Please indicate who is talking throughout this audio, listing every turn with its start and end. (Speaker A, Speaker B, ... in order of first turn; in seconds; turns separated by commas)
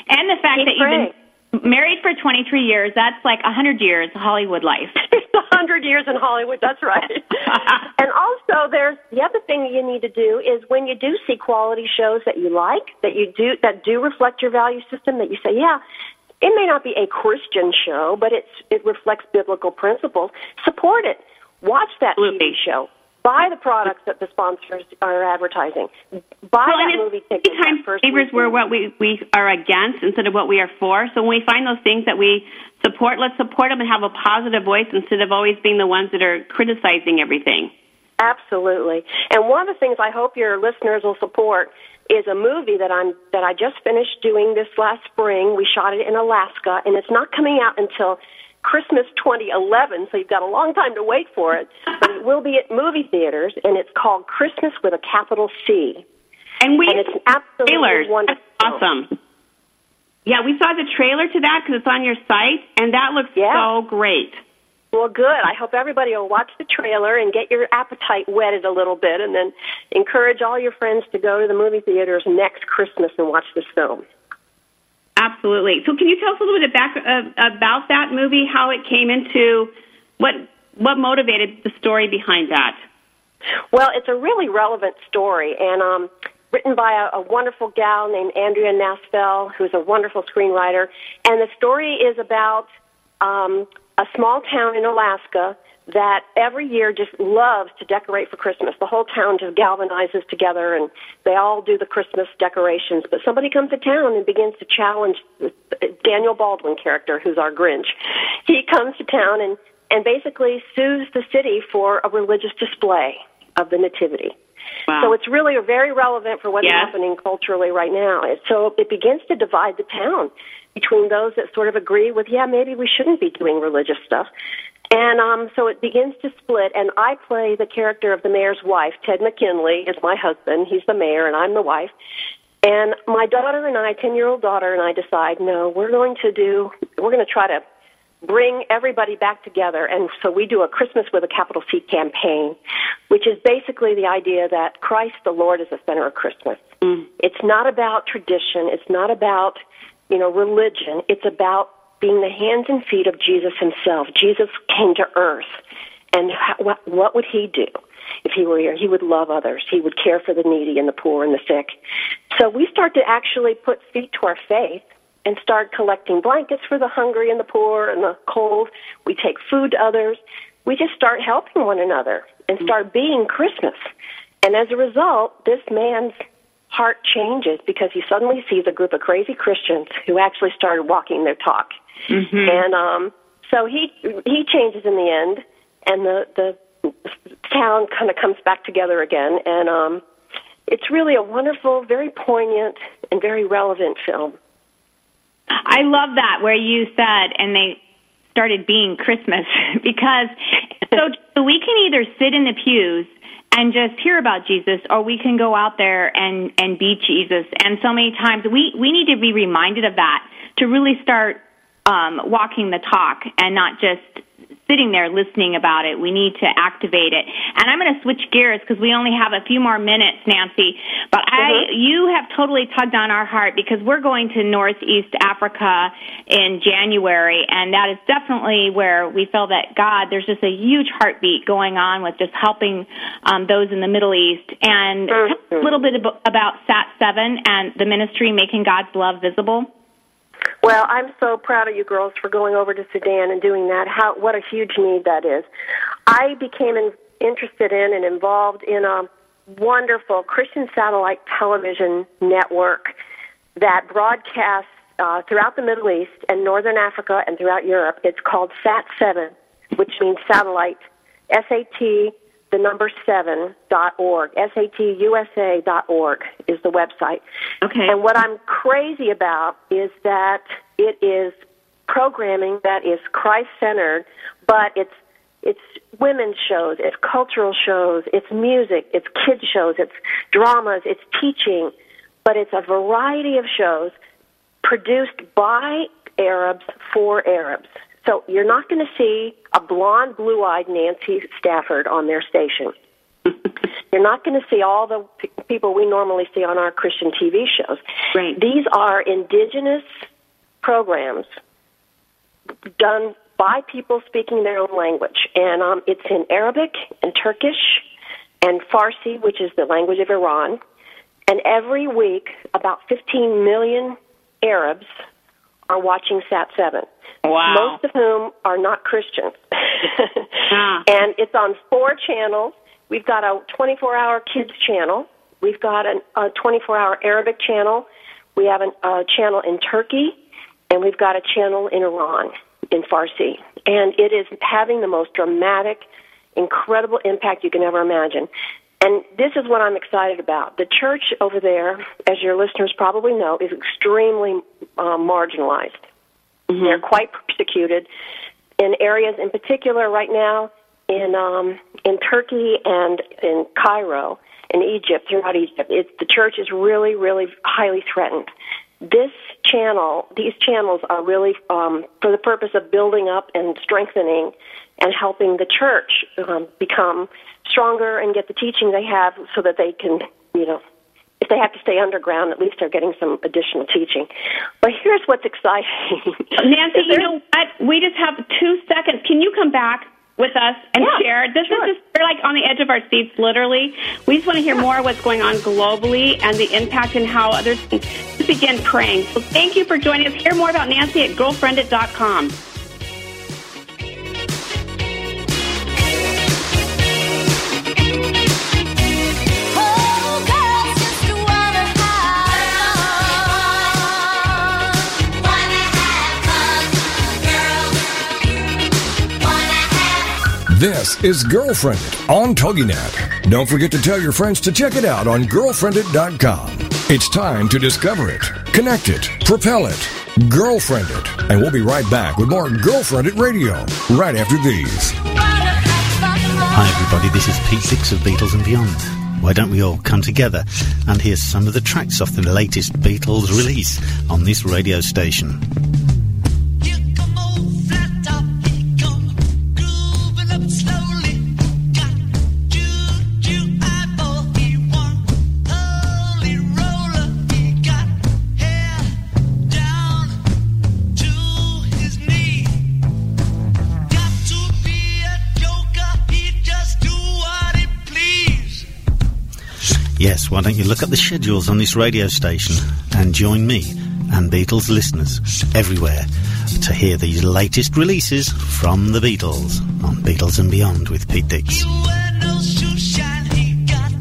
Speaker A: 0.1-5.0, Speaker B: 0.6-1.1, Speaker B: 5.0-15.8, Speaker B: 16.4-25.9, Speaker C: 22.2-22.6, Speaker B: 26.5-28.6, Speaker C: 26.7-37.7, Speaker B: 38.2-56.0, Speaker C: 56.6-57.1, Speaker B: 56.9-58.8, Speaker C: 57.7-59.1, Speaker C: 60.3-64.4, Speaker B: 63.4-63.7, Speaker B: 64.9-74.0, Speaker C: 75.2-82.8, Speaker B: 83.7-92.7, Speaker B: 93.2-114.3, Speaker C: 114.9-115.2, Speaker B: 115.0-124.3, Speaker C: 116.6-116.9, Speaker B: 124.9-131.9, Speaker B: 132.6-137.6, Speaker B: 138.2-142.6, Speaker B: 143.1-146.6, Speaker B: 147.2-155.6, Speaker B: 156.1-161.8, Speaker B: 162.3-173.8, Speaker B: 174.4-176.2, Speaker B: 176.7-181.7, Speaker A: 182.1-182.6, Speaker B: 182.4-190.0, Speaker B: 190.7-194.3, Speaker A: 195.6-197.8, Speaker A: 198.3-239.7, Speaker B: 221.4-221.7, Speaker B: 235.1-235.7, Speaker B: 240.6-245.5, Speaker B: 246.1-253.0, Speaker B: 253.6-267.2, Speaker A: 267.7-267.9, Speaker B: 267.9-271.4, Speaker B: 271.9-281.7, Speaker B: 282.2-283.9, Speaker B: 284.6-292.7, Speaker B: 293.9-297.8, Speaker B: 298.4-299.9, Speaker B: 300.6-301.3, Speaker B: 302.8-307.9, Speaker B: 308.4-310.6, Speaker B: 311.3-314.9, Speaker B: 315.7-316.9, Speaker C: 317.2-317.8, Speaker B: 317.5-330.2, Speaker C: 320.5-320.9, Speaker B: 330.7-335.9, Speaker B: 336.4-338.3, Speaker B: 338.8-345.8, Speaker C: 346.5-346.8, Speaker B: 346.6-347.9, Speaker B: 348.6-358.3, Speaker B: 358.8-370.6, Speaker B: 371.2-374.1, Speaker B: 374.6-377.1, Speaker C: 376.4-392.4, Speaker B: 380.8-381.7, Speaker D: 410.5-425.0, Speaker E: 426.5-435.4, Speaker E: 460.0-471.9